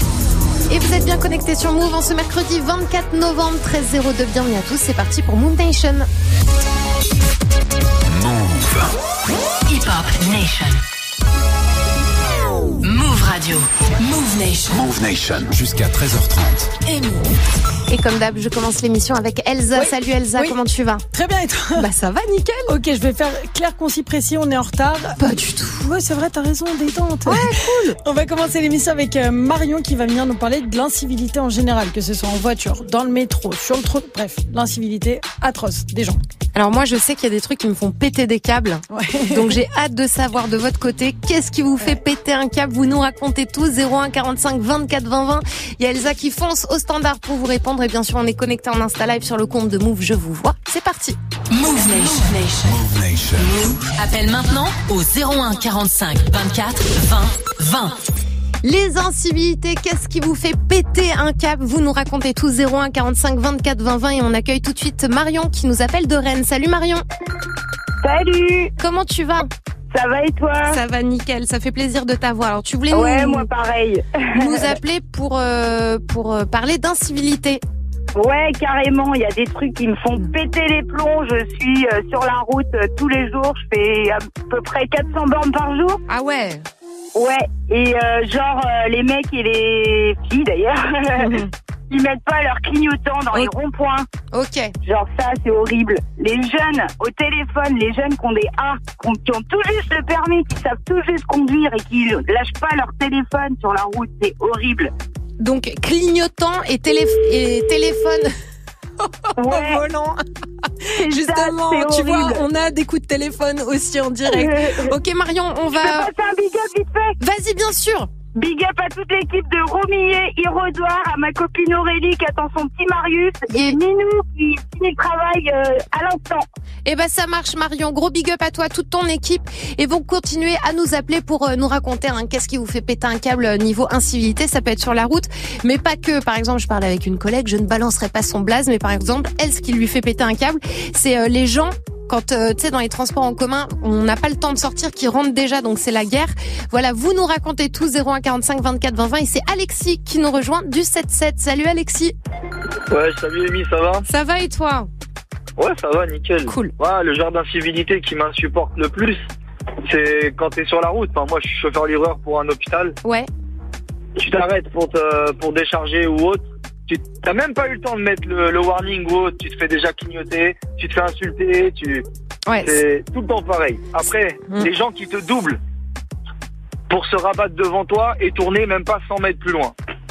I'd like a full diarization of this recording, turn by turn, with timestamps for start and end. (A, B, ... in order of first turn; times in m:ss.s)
0:00.7-0:06.1 A
0:08.1-0:08.9 B
0:09.7-0:10.8 C
0:12.8-0:14.9 C
0:14.7-0:16.7 B
0:16.8-0:17.3 C
0:17.9-0:21.0 A
0:19.8-0:20.6 D
0:21.1-0:21.9 D
0:21.8-0:22.7 A
0:22.7-0:25.2 D
0:25.2-0:25.8 A
0:25.7-0:36.2 D
0:27.3-0:28.0 A
0:36.5-0:51.2 A
0:38.9-0:39.6 D
0:51.5-0:52.8 C
0:52.6-0:53.8 B
0:53.4-0:58.0 C
0:58.6-1:07.0 A
1:08.0-1:08.7 E
1:08.8-1:09.5 A
1:09.9-1:10.8 E
1:10.7-1:13.5 A
1:12.9-1:14.7 E
1:14.4-1:17.6 A
1:18.1-1:26.0 E
1:26.1-1:26.6 A
1:27.1-1:31.4 E
1:31.2-1:31.5 A
1:31.9-1:34.1 E
1:34.3-1:34.7 A
1:34.8-1:44.9 E
1:45.4-1:48.3 A
1:49.0-1:50.2 A
1:49.4-1:49.8 E
1:50.8-1:56.1 A
1:50.9-1:52.4 E
1:55.7-1:57.2 E
1:57.2-1:58.1 A
1:58.3-2:06.5 E
2:03.5-2:03.8 A
2:06.8-2:32.2 A
2:32.9-2:34.1 F
2:34.1-2:34.9 A
2:35.6-2:39.2 F
2:36.5-2:36.8 A
2:39.8-2:43.0 F
2:43.0-2:43.3 A
2:44.2-2:52.0 F
2:52.5-2:52.8 A
2:52.6-2:55.6 F
2:56.9-2:59.8 F